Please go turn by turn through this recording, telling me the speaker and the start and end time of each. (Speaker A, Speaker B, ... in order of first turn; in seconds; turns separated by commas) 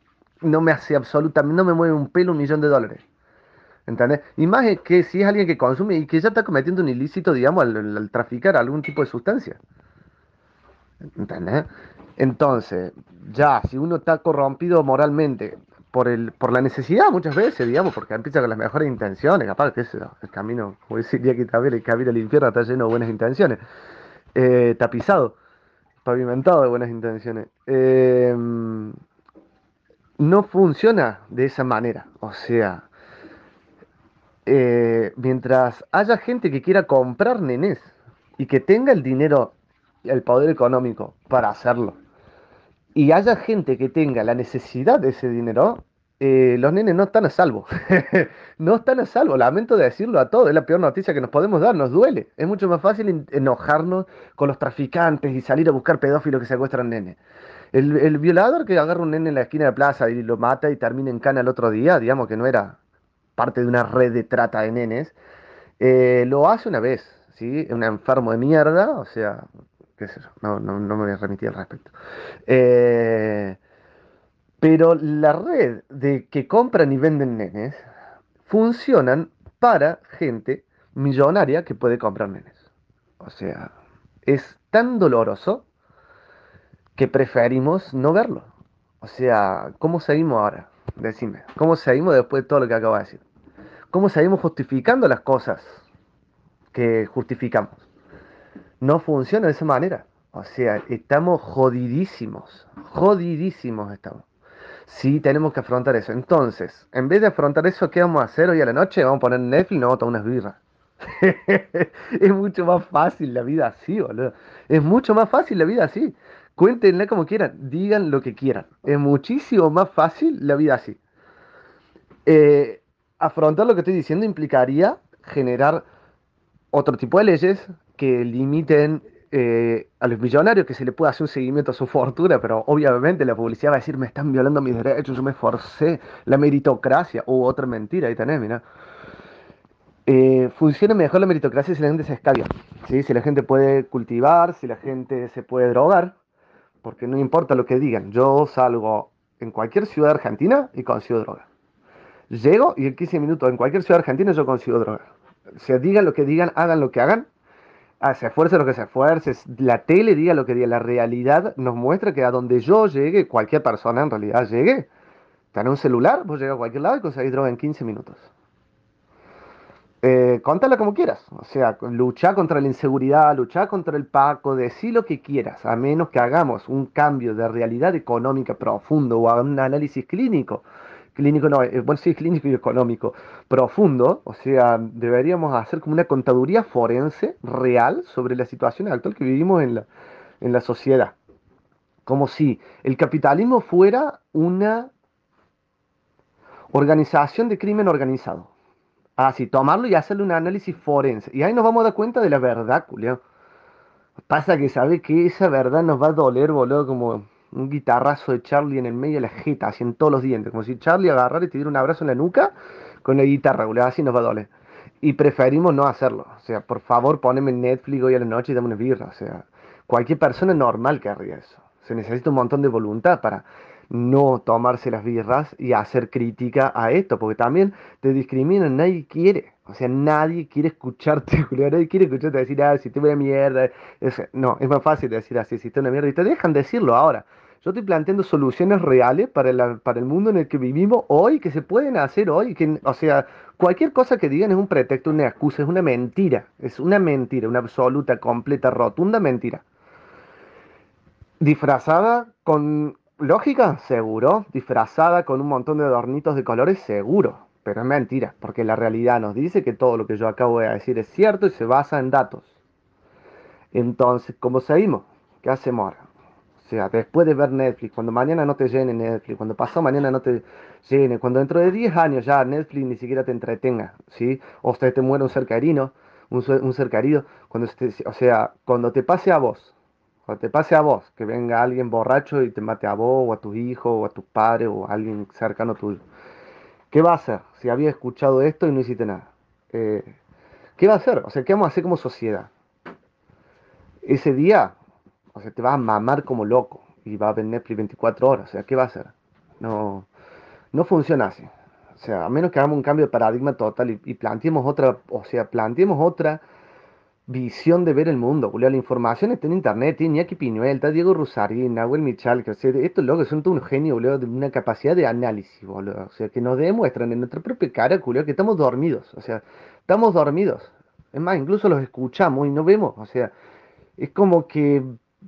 Speaker A: 0.4-3.0, Speaker A: 3.9-9.6, Speaker A: 11.2-23.6, Speaker A: 24.4-25.4, Speaker A: 26.0-29.0, Speaker A: 30.2-32.9, Speaker A: 34.5-39.5, Speaker A: 40.0-42.0, Speaker A: 43.0-57.2, Speaker A: 57.7-62.8, Speaker A: 63.4-65.2, Speaker A: 65.8-69.5, Speaker A: 70.0-71.9, Speaker A: 72.5-73.6, Speaker A: 74.6-77.8, Speaker A: 78.5-82.6, Speaker A: 83.2-83.7, Speaker A: 84.3-85.7, Speaker A: 87.0-88.5, Speaker A: 89.0-93.2, Speaker A: 93.9-95.8, Speaker A: 96.7-97.8, Speaker A: 98.8-104.3, Speaker A: 104.9-121.0, Speaker A: 122.3-125.9, Speaker A: 126.7-138.6, Speaker A: 140.1-146.2, Speaker A: 146.8-151.5, Speaker A: 152.3-157.3, Speaker A: 158.0-164.9, Speaker A: 165.5-168.3, Speaker A: 170.0-189.9, Speaker A: 190.4-191.2, Speaker A: 192.1-194.9, Speaker A: 196.7-198.5, Speaker A: 199.2-203.2, Speaker A: 204.3-212.5, Speaker A: 213.0-214.5, Speaker A: 215.0-249.6, Speaker A: 251.4-262.5, Speaker A: 263.7-266.1, Speaker A: 266.6-279.7, Speaker A: 280.3-286.0, Speaker A: 286.9-290.2, Speaker A: 290.8-292.5, Speaker A: 294.0-294.8, Speaker A: 295.4-300.1, Speaker A: 300.7-306.4, Speaker A: 307.3-323.3, Speaker A: 324.0-324.9